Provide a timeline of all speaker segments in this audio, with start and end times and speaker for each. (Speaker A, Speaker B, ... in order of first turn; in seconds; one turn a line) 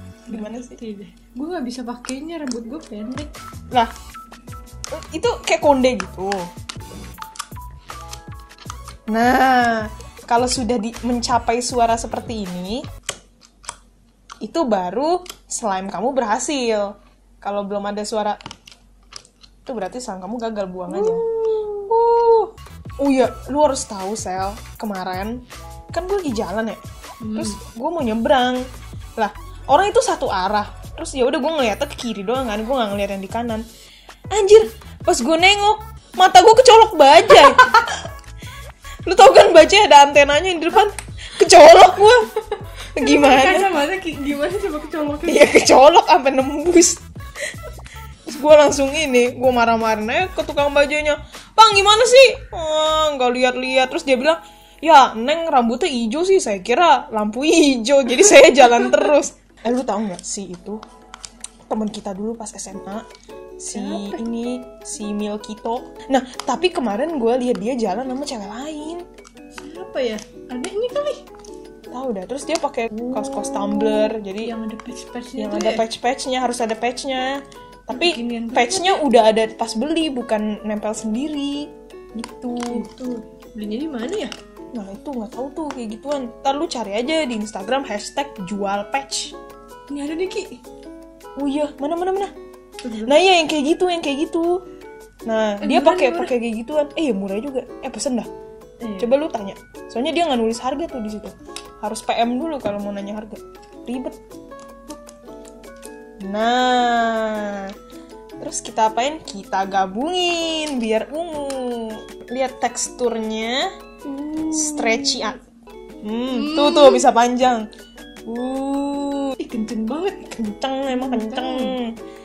Speaker A: 0.3-0.8
Speaker B: 0.3-3.3
Speaker A: 5.0-6.5
Speaker A: 9.1-12.8
Speaker A: 14.4-18.4
Speaker A: 19.6-21.2
Speaker B: 20.9-21.9
Speaker A: 21.9-22.5
Speaker A: 23.0-25.4
Speaker A: 25.9-26.8
Speaker B: 27.2-27.6
Speaker A: 27.3-28.6
Speaker A: 29.2-33.6
Speaker A: 34.3-37.8
Speaker A: 39.0-42.3
Speaker A: 43.0-43.6
Speaker B: 43.0-45.6
Speaker A: 45.3-47.0
Speaker A: 48.3-60.8
Speaker A: 61.7-63.0
Speaker A: 63.6-69.0
Speaker B: 63.7-64.2
Speaker B: 69.6-71.2
Speaker A: 71.9-74.5
Speaker B: 73.1-75.8
Speaker A: 75.4-81.7
Speaker B: 77.9-79.0
Speaker B: 82.2-84.3
Speaker A: 82.5-82.8
Speaker A: 84.7-89.3
Speaker B: 89.9-90.6
Speaker A: 91.4-92.3
Speaker B: 92.8-93.2
Speaker A: 93.0-94.6
Speaker A: 95.3-98.3
Speaker B: 95.6-96.3
Speaker B: 98.8-99.1
Speaker A: 99.0-104.2
Speaker A: 106.2-107.7
Speaker A: 108.4-113.7
Speaker B: 114.0-115.3
Speaker A: 114.5-115.4
Speaker A: 116.0-117.7
Speaker A: 118.3-119.3
Speaker B: 119.4-120.3
Speaker A: 120.3-121.9
Speaker B: 120.9-121.8